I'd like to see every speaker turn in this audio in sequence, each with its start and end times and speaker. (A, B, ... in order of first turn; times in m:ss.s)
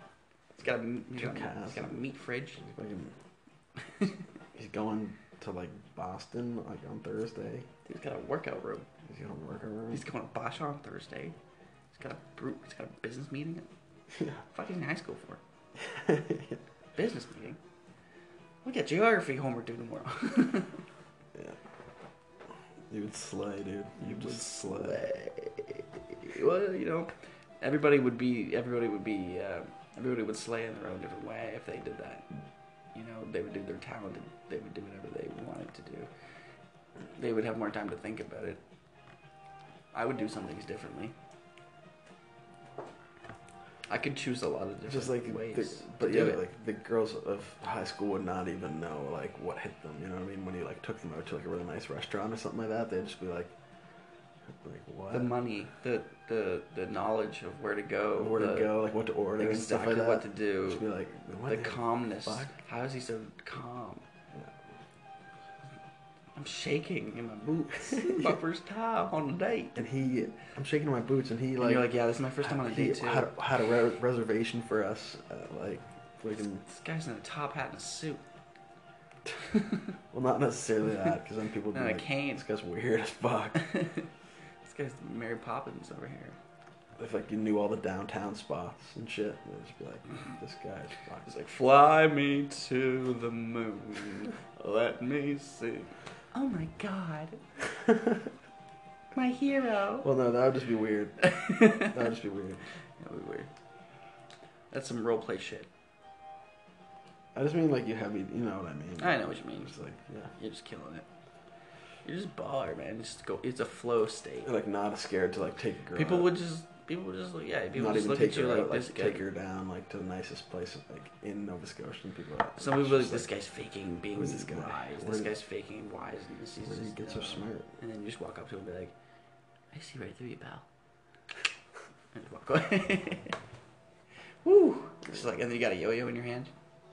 0:00.6-0:02.6 A
0:01.1-0:01.9 B
0:02.6-0:03.1 B
0:04.5-0:07.7 B
0:07.8-0:08.9 A
0:09.0-0:10.0 B
0:09.9-0:11.4 A
0:11.9-0:13.7 A
0:14.1-0:14.4 B
0:14.5-0:15.4 A
0:15.8-0:16.6 B
0:17.0-0:17.6 A
0:18.6-0:20.8 A
0:22.9-0:25.0 B
0:24.0-0:32.2 A
0:32.9-0:36.1 A
0:37.1-0:38.6 A
0:39.9-0:41.1 A
0:43.9-0:46.4 A
0:44.9-0:53.5 B
0:54.5-0:55.3 B
0:55.1-0:58.7 A
0:58.2-1:02.5 B
0:59.4-1:00.8 A
1:01.5-1:04.0 A
1:06.3-1:09.8 A
1:08.0-1:08.3 B
1:09.7-1:11.8 B
1:11.6-1:13.3 A
1:12.4-1:16.6 B
1:16.7-1:18.2 A
1:19.5-1:19.8 A
1:20.1-1:23.6 B
1:21.7-1:22.4 A
1:23.5-1:24.1 A
1:24.6-1:26.4 A
1:27.0-1:31.3 B
1:31.2-1:37.4 A
1:39.1-1:40.1 A
1:40.0-1:42.6 B
1:41.2-1:41.9 A
1:43.0-1:43.5 A
1:44.7-1:45.7 A
1:47.3-1:50.3 B
1:49.0-1:49.8 A
1:50.4-1:51.0 A
1:52.0-1:54.5 A
1:54.4-1:56.3 B
1:55.9-1:59.2 A
1:57.7-2:03.3 B
2:02.6-2:08.9 A
2:04.1-2:05.3 B
2:06.6-2:07.7 B
2:09.7-2:10.6 A
2:12.1-2:13.4 A
2:14.4-2:16.5 A